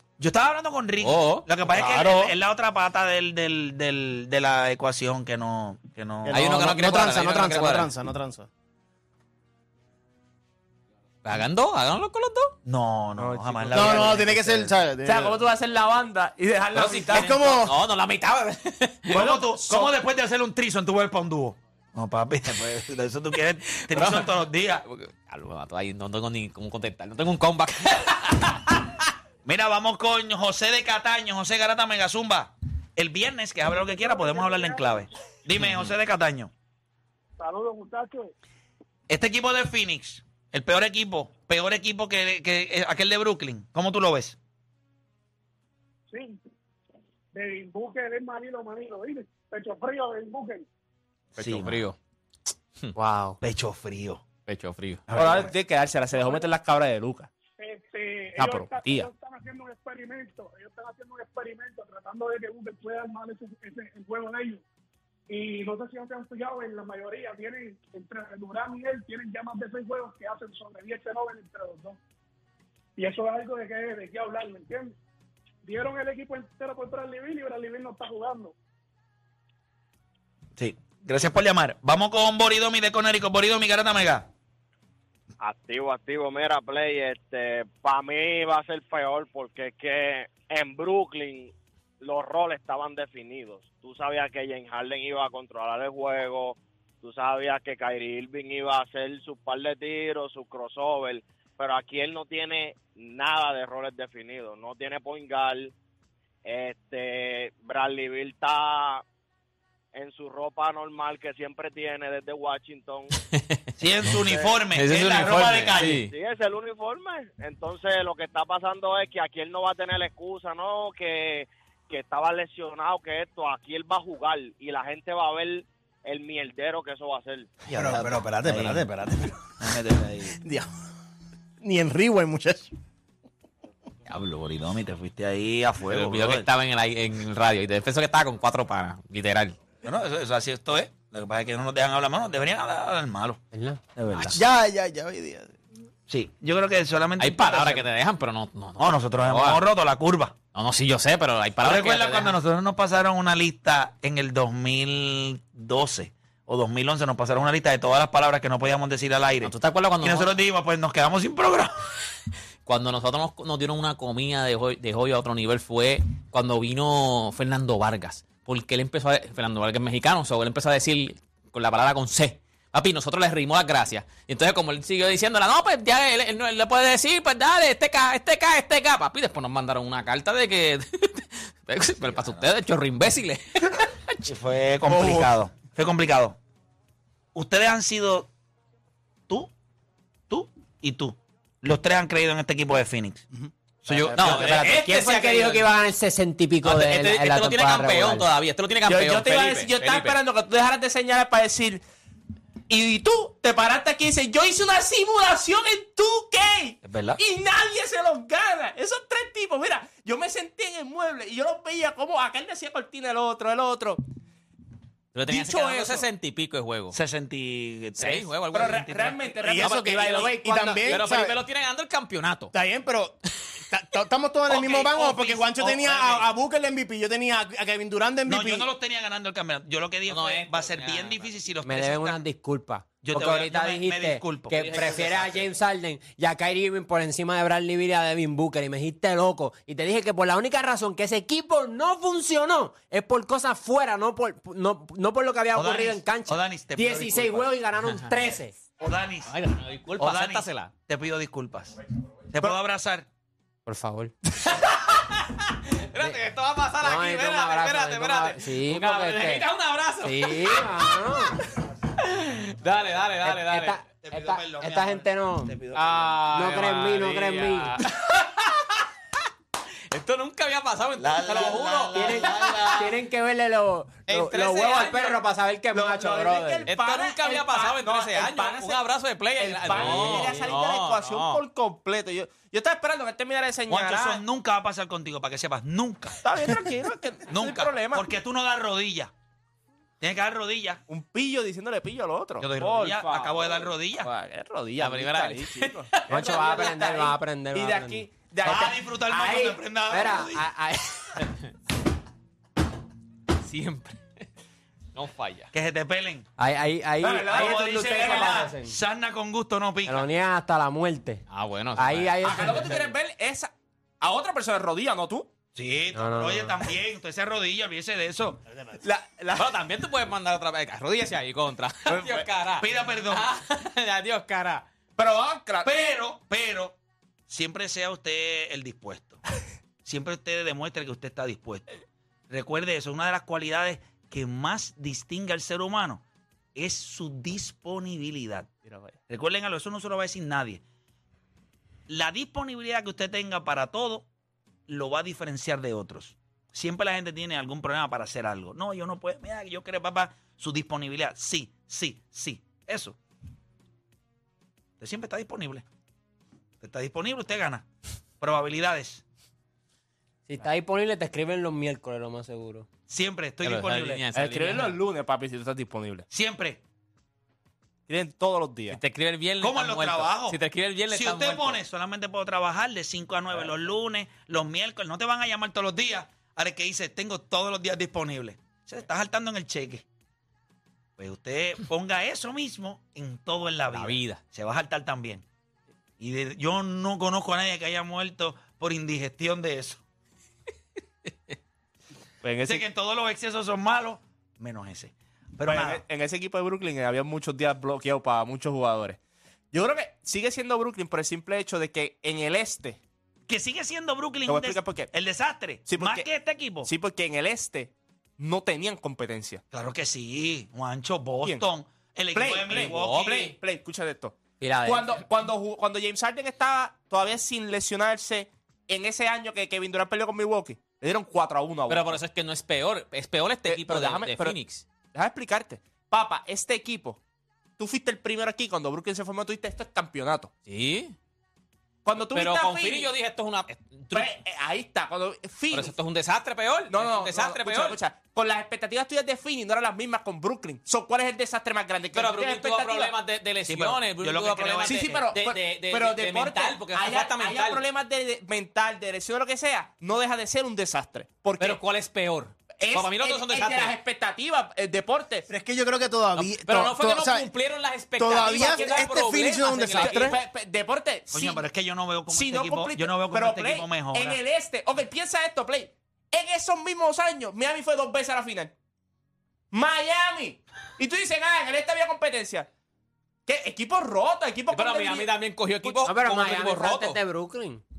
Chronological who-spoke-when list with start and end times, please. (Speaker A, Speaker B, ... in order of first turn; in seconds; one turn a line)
Speaker A: 0.2-6.4
Speaker B: 1.0-1.5
Speaker C: 1.7-2.3
Speaker C: 6.2-8.5
Speaker B: 6.3-7.9
Speaker B: 11.2-12.6
Speaker A: 12.7-14.7
Speaker D: 13.2-14.4
Speaker C: 13.7-15.4
Speaker D: 15.0-17.4
Speaker B: 16.7-19.2
Speaker C: 17.1-17.8
Speaker A: 19.1-24.8
Speaker D: 19.1-20.0
Speaker B: 23.9-24.3
Speaker B: 24.9-28.8
Speaker A: 29.4-36.5
Speaker E: 33.8-35.1
Speaker B: 35.6-35.9
Speaker E: 37.4-38.3
Speaker A: 39.1-44.4
Speaker E: 46.1-46.4
Speaker E: 47.3-50.7
Speaker A: 51.4-51.9
Speaker B: 51.4-52.0
Speaker F: 53.0-53.4
Speaker A: 53.4-54.2
Speaker B: 54.5-55.1
Speaker A: 55.1-55.5
Speaker D: 55.1-57.3
Speaker E: 56.1-56.5
Speaker E: 57.6-64.6
Speaker D: 58.4-59.1
Speaker E: 65.3-72.0
Speaker E: 73.0-75.0
Speaker E: 75.7-78.5
Speaker A: 80.6-84.3
Speaker G: 85.4-105.7
Speaker G: 106.5-109.0
Speaker G: 109.9-113.2
Speaker B: 113.3-114.2
Speaker A: 113.8-116.1
Speaker B: 114.7-116.1
Speaker G: 116.1-127.6
Speaker A: 127.7-128.9
Speaker C: 127.7-129.4
Speaker A: 129.6-130.4
Speaker C: 130.4-130.7
Speaker C: 131.6-132.7
Speaker A: 134.1-136.5
Speaker B: 135.9-139.6
Speaker A: 139.8-143.4
Speaker F: 143.5-143.8
Speaker A: 144.0-144.4
Speaker C: 144.2-145.5
Speaker A: 146.1-147.9
Speaker B: 147.2-149.6
Speaker A: 148.8-150.4
Speaker B: 150.5-152.4
Speaker A: 151.6-161.8
Speaker B: 159.4-160.3
Speaker B: 162.7-184.2
Speaker A: 182.1-182.4
Speaker A: 184.2-186.4
Speaker D: 184.9-185.3
Speaker A: 187.3-188.3
Speaker A: 190.3-193.3
Speaker A: 193.8-194.8
Speaker F: 193.9-198.3
Speaker B: 194.2-195.7
Speaker B: 196.6-200.2
Speaker D: 198.9-201.8
Speaker D: 202.7-214.0
Speaker A: 206.8-207.2
Speaker B: 215.1-217.0
Speaker D: 215.3-216.1
Speaker A: 216.9-219.2
Speaker B: 218.0-218.9
Speaker D: 218.5-221.0
Speaker C: 219.4-221.4
Speaker B: 219.6-222.5
Speaker C: 222.5-223.2
Speaker C: 223.7-228.7
Speaker A: 224.5-226.2
Speaker A: 228.3-232.2
Speaker B: 230.1-231.3
Speaker F: 231.6-248.6
Speaker A: 233.0-235.1
Speaker B: 234.6-235.5
Speaker A: 245.5-247.5
Speaker B: 247.8-248.1
Speaker A: 248.8-249.3
Speaker B: 249.3-250.7
Speaker A: 250.0-251.8
Speaker A: 252.3-253.1
Speaker F: 253.7-254.1
Speaker B: 254.6-261.4
Speaker F: 256.8-259.5
Speaker F: 260.0-261.4
Speaker B: 262.0-263.8
Speaker F: 263.2-267.8
Speaker A: 264.0-266.5
Speaker B: 266.2-268.8
Speaker B: 269.9-272.9
Speaker A: 271.0-273.0
Speaker F: 271.9-276.7
Speaker B: 274.1-275.2
Speaker D: 275.7-278.8
Speaker B: 276.7-281.4
Speaker D: 279.4-284.2
Speaker F: 280.0-280.3
Speaker A: 283.7-286.2
Speaker D: 286.2-288.1
Speaker A: 287.3-289.1
Speaker A: 290.0-290.8
Speaker D: 290.9-299.4
Speaker A: 292.4-294.1
Speaker B: 294.8-296.6
Speaker F: 296.1-298.1
Speaker A: 298.4-300.5
Speaker F: 299.2-301.2
Speaker B: 303.4-304.2
Speaker B: 304.9-305.5
Speaker A: 305.5-306.3
Speaker F: 306.4-308.8
Speaker D: 307.0-308.5
Speaker A: 307.3-310.1
Speaker F: 309.9-311.2
Speaker B: 311.3-312.7
Speaker F: 311.8-313.0
Speaker D: 312.2-315.3
Speaker A: 315.6-318.4
Speaker F: 315.9-316.6
Speaker D: 318.8-319.5
Speaker B: 319.3-324.7
Speaker D: 321.9-322.3
Speaker A: 322.6-323.3
Speaker D: 325.0-325.7
Speaker A: 325.6-326.8
Speaker A: 327.3-329.2
Speaker A: 329.9-331.7
Speaker A: 332.3-336.0
Speaker A: 336.6-338.5
Speaker D: 338.6-339.0
Speaker A: 339.1-340.6
Speaker A: 341.9-344.1
Speaker A: 344.7-353.0
Speaker A: 354.8-355.6
Speaker A: 356.6-357.7
Speaker A: 358.2-359.0
Speaker F: 360.3-362.7
Speaker A: 362.9-364.1
Speaker B: 363.4-364.8
Speaker D: 364.1-366.1
Speaker A: 366.1-366.6
Speaker D: 367.9-368.8
Speaker B: 368.7-371.6
Speaker A: 369.4-370.4
Speaker A: 370.9-379.9
Speaker A: 381.0-385.2
Speaker B: 383.7-384.2
Speaker A: 386.0-389.8
Speaker D: 392.2-392.6
Speaker A: 392.5-395.8
Speaker D: 395.4-399.0
Speaker D: 399.5-402.8
Speaker A: 403.3-406.7
Speaker D: 404.3-404.9
Speaker D: 405.7-406.1
Speaker D: 406.6-409.4
Speaker A: 409.5-413.3
Speaker D: 412.1-422.0
Speaker B: 412.5-413.3
Speaker F: 414.4-415.0
Speaker B: 421.7-424.6
Speaker D: 423.4-424.4
Speaker D: 424.9-427.0
Speaker D: 427.6-430.3
Speaker B: 430.5-430.9
Speaker D: 431.9-432.9
Speaker B: 432.1-434.1
Speaker D: 433.9-435.7
Speaker B: 435.5-437.8
Speaker D: 436.7-442.9
Speaker B: 441.9-447.6
Speaker A: 443.5-445.1
Speaker D: 444.6-451.6
Speaker B: 451.4-453.8
Speaker D: 452.6-455.3
Speaker C: 455.3-457.3
Speaker B: 456.2-460.1
Speaker C: 458.0-460.2
Speaker D: 459.8-461.4
Speaker A: 461.1-464.2
Speaker D: 462.1-468.5
Speaker D: 469.5-472.5
Speaker D: 473.3-475.1
Speaker B: 474.5-477.0
Speaker F: 475.6-477.6